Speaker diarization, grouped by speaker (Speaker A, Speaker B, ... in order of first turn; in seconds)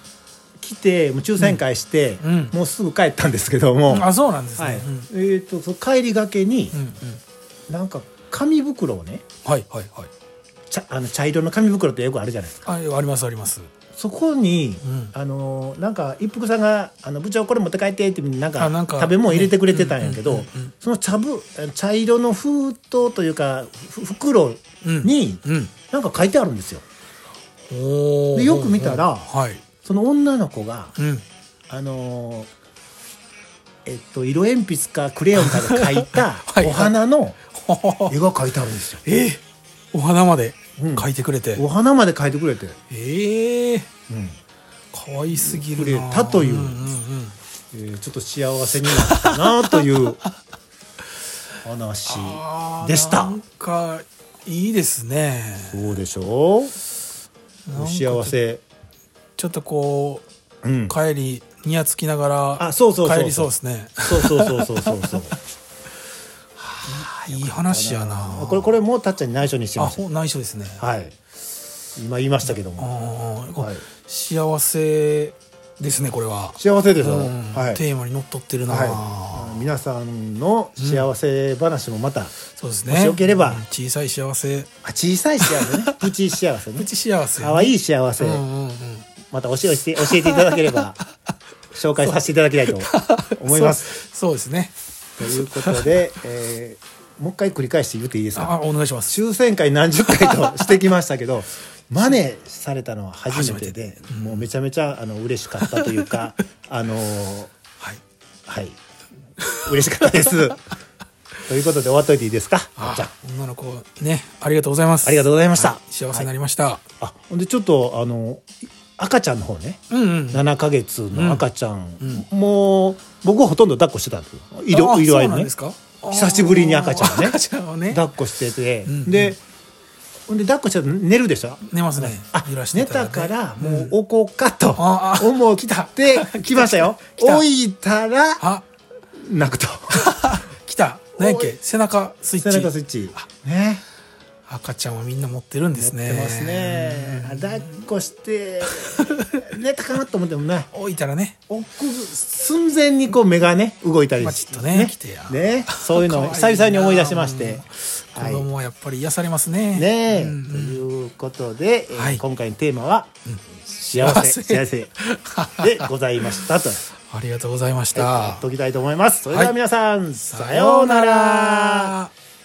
Speaker A: 0.6-4.1, 4.6-6.8, 7.7-9.2, 10.7-12.7, 13.9-26.8, 28.3-29.3, 29.8-30.9, 31.7-32.5, 33.9-37.4, 38.1-39.0, 40.8-42.8, 44.1-44.4, 45.3-46.9, 47.7-50.2, 51.6-53.4, 55.7-56.7, 57.7-58.6, 60.6-60.9, 62.6-63.5, 64.1-65.3, 66.8-70.0, 70.8-71.1, 72.0-72.9, 73.6-73.8, 76.6-77.8, 78.7-82.3, 82.9-83.6, 84.8-86.9, 87.4-88.4, 89.3-91.0, 91.7-93.9, 95.2-98.5, 99.1-107.5, 108.5-108.8, 109.5-110.6, 111.4-113.1, 115.0-116.3, 117.0-119.8, 120.3-125.5, 126.1-127.4, 127.9-129.4, 130.3-138.4, 139.2-140.0, 141.2-141.6, 142.4-143.8, 145.7-150.7, 151.5-157.6, 158.2-158.4, 159.7-163.1, 163.6-164.9, 165.6-166.8, 167.9-171.9
Speaker B: 2.2-2.5, 3.9-5.1, 6.7-7.2, 9.4-10.1, 12.6-13.7, 14.8-15.1, 18.6-20.7, 24.8-25.7, 27.7-29.6, 31.0-31.2, 35.3-36.9, 37.5-38.1, 39.0-41.6, 42.9-43.9, 44.9-47.4, 48.9-50.3, 52.0-55.9, 57.7-58.4, 59.4-60.2, 60.9-65.3, 66.6-68.8, 69.8-70.8, 72.5-79.7, 80.8-81.0, 82.5-84.7, 85.4-86.1, 86.7-89.1, 90.0-91.0, 92.0-94.7, 95.3-96.0, 98.3-99.2, 100.0-100.8, 103.3-104.5, 105.6-106.1, 109.4-110.3, 112.8-116.8, 119.9-120.5, 121.1-121.4, 122.0-122.2, 124.7-128.0, 128.8-129.3, 131.7-133.9, 134.8-137.4, 138.4-138.6, 139.9-143.2, 144.4-147.7, 148.7-149.4, 150.7-151.4, 154.2-160.8, 161.9-162.2, 164.0-166.5, 167.1-168.4, 169.3-169.6, 170.2-172.1